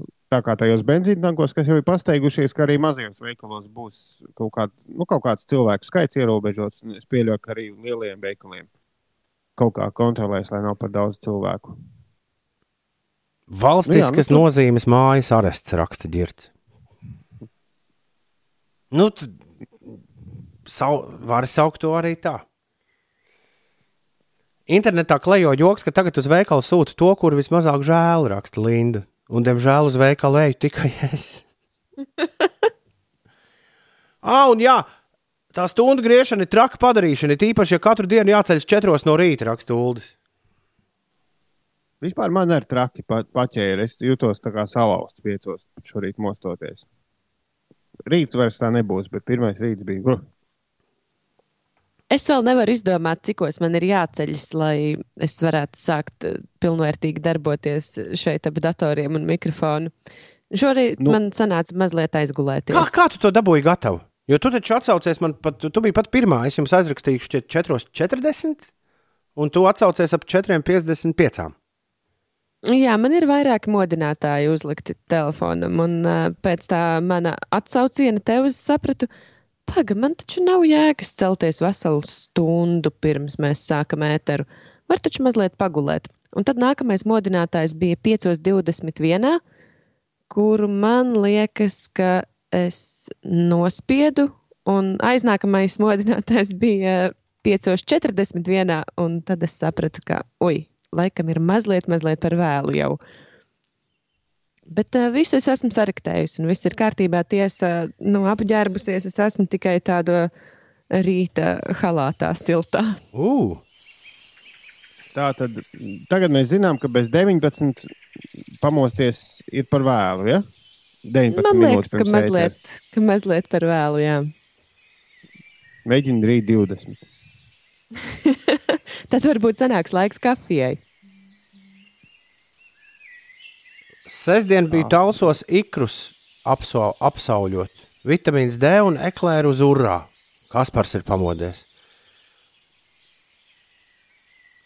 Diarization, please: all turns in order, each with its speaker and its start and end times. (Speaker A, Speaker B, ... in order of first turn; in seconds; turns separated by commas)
Speaker A: 0.3-8.7, Speaker A: 9.6-11.7, Speaker B: 13.5-16.5, Speaker A: 13.9-14.4, Speaker B: 18.9-19.3, Speaker B: 20.6-22.4, Speaker B: 24.7-31.4, Speaker B: 34.2-34.9, Speaker B: 35.5-40.1, Speaker A: 42.0-46.8, Speaker A: 48.1-50.2, Speaker C: 52.1-59.9, Speaker C: 60.5-63.0, Speaker B: 62.7-68.7, Speaker B: 69.3-71.5, Speaker C: 72.7-79.1, Speaker C: 79.7-89.4, Speaker C: 90.3-103.0, Speaker C: 104.7-110.3, Speaker C: 110.9-113.0, Speaker B: 113.1-113.6, Speaker A: 115.0-117.8, Speaker A: 118.6-120.4, Speaker A: 121.0-122.5, Speaker C: 121.3-124.3, Speaker A: 125.8-127.0, Speaker C: 128.1-130.8, Speaker B: 134.1-141.6